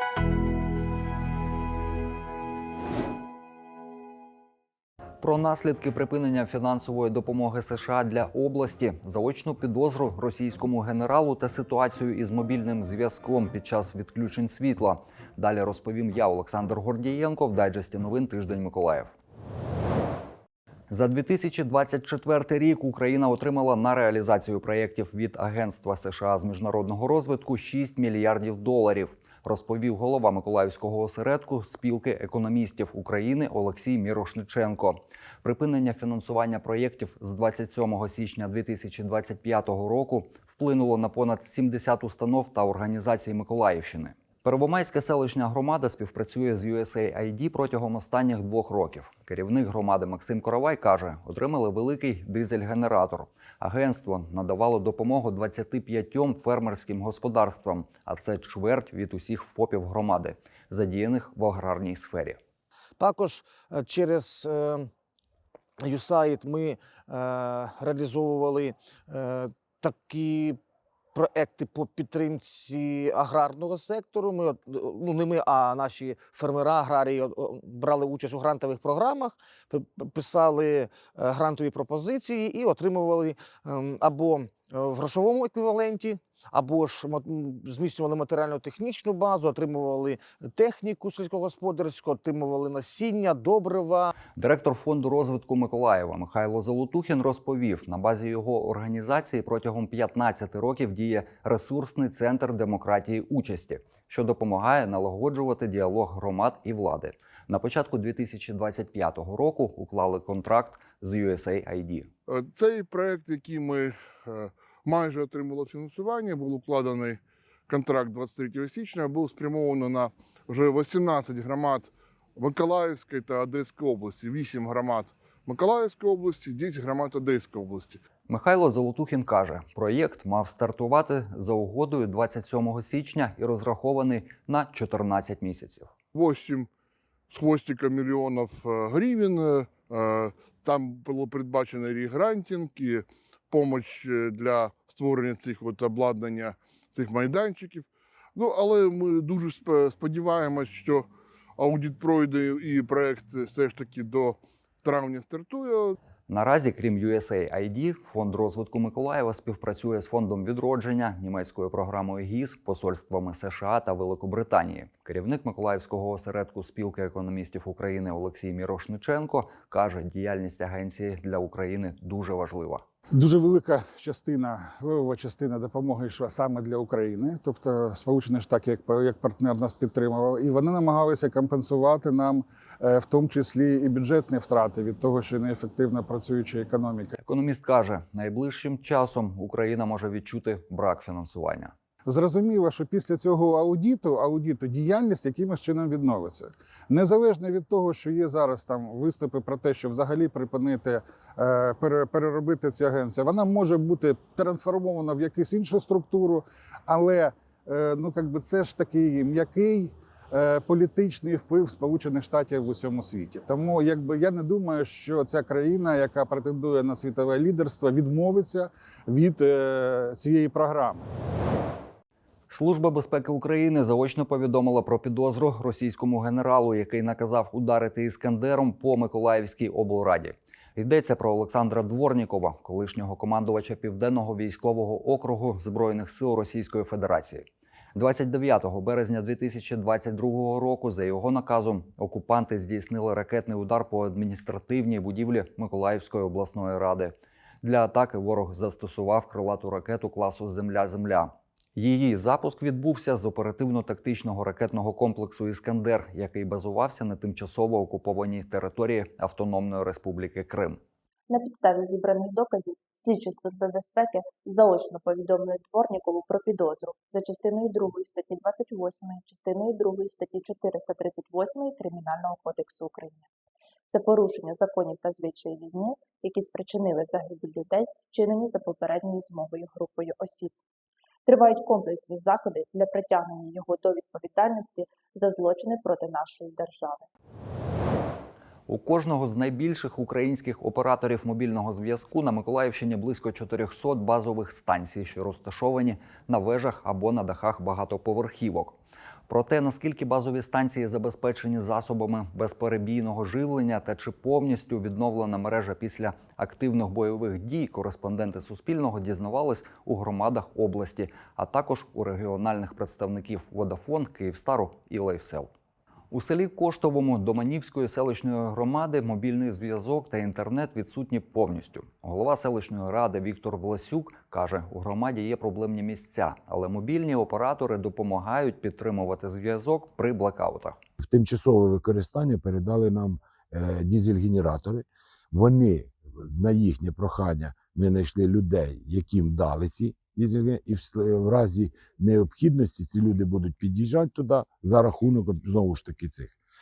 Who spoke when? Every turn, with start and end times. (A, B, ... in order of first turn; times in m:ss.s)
0:05.2-0:19.1 A
0:20.9-1:02.4 A
1:03.0-1:04.9 B
1:05.8-1:10.6 B
1:11.1-1:34.1 B
1:34.4-1:52.1 A
1:52.3-2:08.0 C
2:08.3-2:15.9 A
2:16.1-2:16.7 C
2:17.3-2:31.1 C
2:31.6-2:35.9 C
2:36.3-2:52.8 A
2:53.1-3:07.1 D
3:07.2-3:11.7 A
3:12.1-3:41.0 D
3:42.5-4:20.8 A
4:21.3-4:33.2 E
4:33.9-4:40.5 E
4:41.2-4:47.0 E
4:48.7-5:15.5 A
5:16.1-5:30.8 A
5:31.0-5:46.3 F